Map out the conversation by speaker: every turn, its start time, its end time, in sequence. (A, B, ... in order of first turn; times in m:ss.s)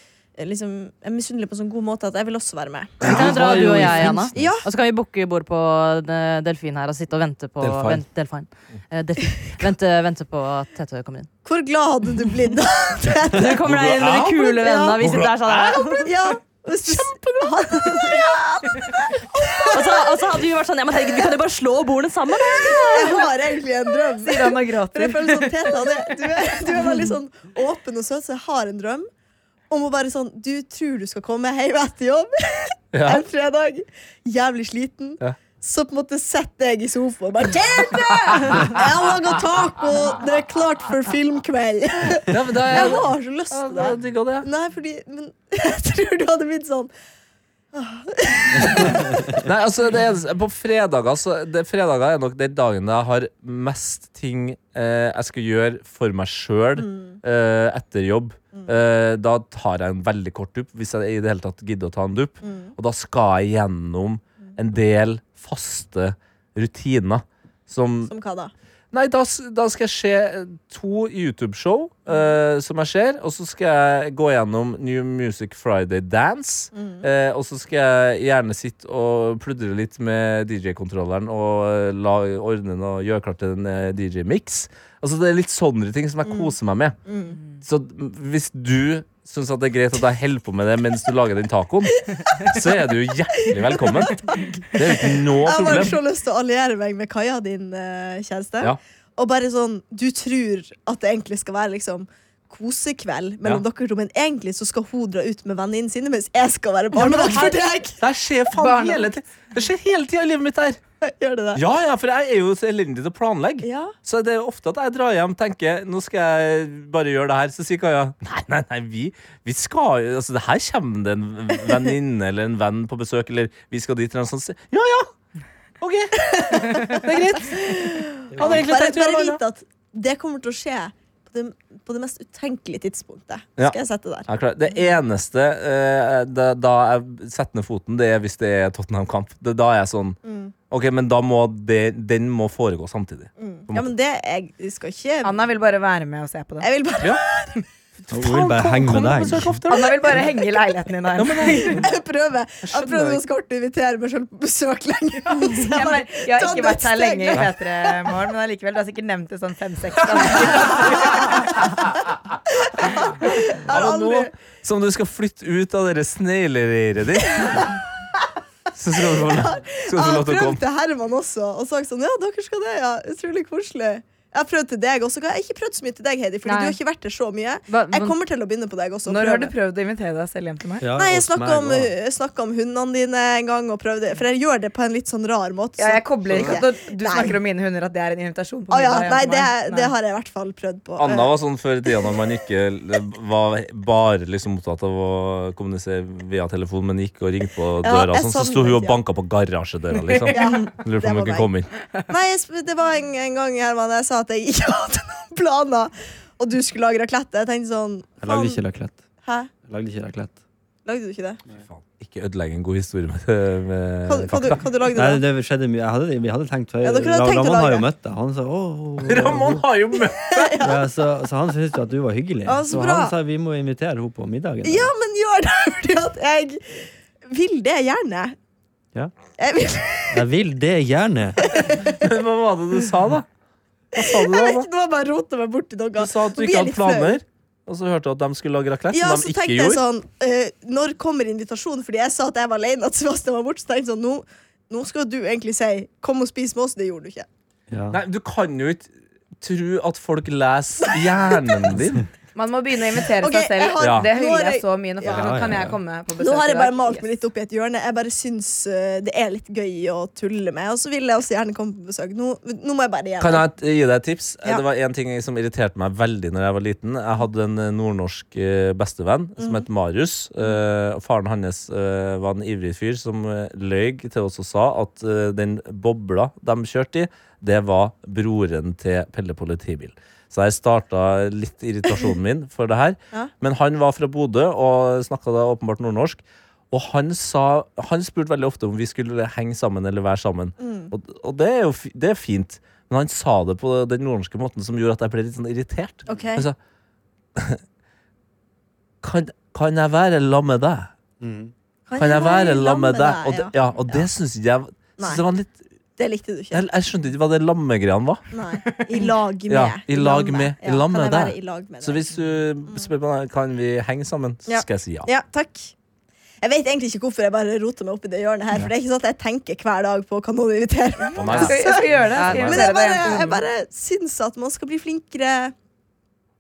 0:00.4-0:03.0 A
0:03.0-0:04.5 B
0:03.0-0:11.3 C
0:03.6-0:04.1 D
0:04.3-0:04.6 A
0:07.6-0:08.0 B
0:11.4-0:13.6 A
0:13.3-0:16.1 C
0:13.6-0:15.9 B
0:14.4-0:15.0 A
0:15.8-0:20.2 A
0:19.7-0:23.1 C
0:21.0-0:21.2 A
0:22.6-0:29.1 A
0:24.2-0:27.1 E
0:29.7-0:46.9 A
0:32.9-0:33.2 B
0:38.4-0:38.6 B
0:42.3-0:44.5 B
0:47.7-0:49.3 A
0:49.4-1:08.1 B
0:56.8-0:57.2 A
1:02.4-1:02.7 A
1:08.1-1:08.5 A
1:08.9-1:27.0 B
1:16.7-1:17.1 A
1:26.2-1:26.5 A
1:27.1-1:27.4 A
1:27.6-1:36.0 B
1:33.9-1:48.0 A
1:47.0-1:50.8 B
1:48.6-1:49.1 E
1:51.0-1:51.6 A
1:51.6-2:05.1 B
1:53.6-1:53.9 A
2:05.8-2:09.4 B
2:06.2-2:14.3 A
2:08.3-2:08.7 D
2:14.3-2:20.2 B
2:20.2-2:20.5 A
2:20.7-2:23.9 B
2:23.4-2:25.5 A
2:25.2-2:26.7 E
2:26.6-2:27.6 A
2:28.0-2:30.3 B
2:28.1-2:29.6 D
2:29.7-2:31.9 E
2:31.2-2:31.9 B
2:31.8-2:38.1 A
2:32.6-2:33.2 B
2:35.4-2:41.9 E
2:40.6-2:41.2 A
2:42.6-2:44.3 A
2:43.7-2:47.7 B
2:48.8-2:50.6 B
2:49.0-2:59.5 A
2:56.4-2:56.8 C
2:57.7-2:58.2 C
2:59.1-3:00.9 E
3:00.8-3:01.9 D
3:01.0-3:07.4 A
3:05.8-3:09.9 E
3:06.3-3:06.6 B
3:08.7-3:11.3 A
3:11.0-3:21.7 B
3:17.8-3:19.0 A
3:20.3-3:21.5 A
3:22.1-3:28.6 A
3:28.2-3:29.0 D
3:29.2-3:29.5 A
3:29.6-3:30.4 D
3:30.8-3:31.4 A
3:31.6-3:34.6 B
3:34.1-3:35.2 A
3:34.9-3:39.6 D
3:36.8-3:37.9 A
3:39.0-3:40.6 B
3:40.3-3:40.8 A
3:40.6-3:44.9 D
3:42.4-3:43.2 A
3:44.6-3:48.4 A
3:49.4-3:50.2 A
3:50.1-3:51.5 D
3:51.4-3:52.1 A
3:52.0-3:53.3 B
3:53.9-3:54.7 B
3:54.0-3:57.2 A
3:56.0-3:59.8 B
3:58.9-4:07.3 A
4:07.7-4:08.0 D
4:07.9-4:12.0 B
4:10.8-4:11.7 A
4:12.4-4:17.0 E
4:13.2-4:15.3 A
4:13.8-4:14.1 B
4:15.0-4:15.8 D
4:16.2-4:23.4 A
4:23.2-4:56.6 B
4:29.4-4:29.7 A
4:50.6-4:50.9 A
4:56.1-4:56.5 A
4:57.4-4:57.6 B
4:59.0-5:00.9 B
5:01.2-5:01.5 D
5:01.9-5:03.6 A
5:02.0-5:05.6 B
5:05.0-5:05.2 A
5:06.0-5:06.7 A
5:06.5-5:08.2 B
5:08.3-5:12.0 A
5:09.5-5:15.1 B
5:14.5-5:15.7 A
5:16.4-5:25.5 A
5:21.2-5:22.7 B
5:21.3-5:21.6 C
5:21.3-5:23.4 E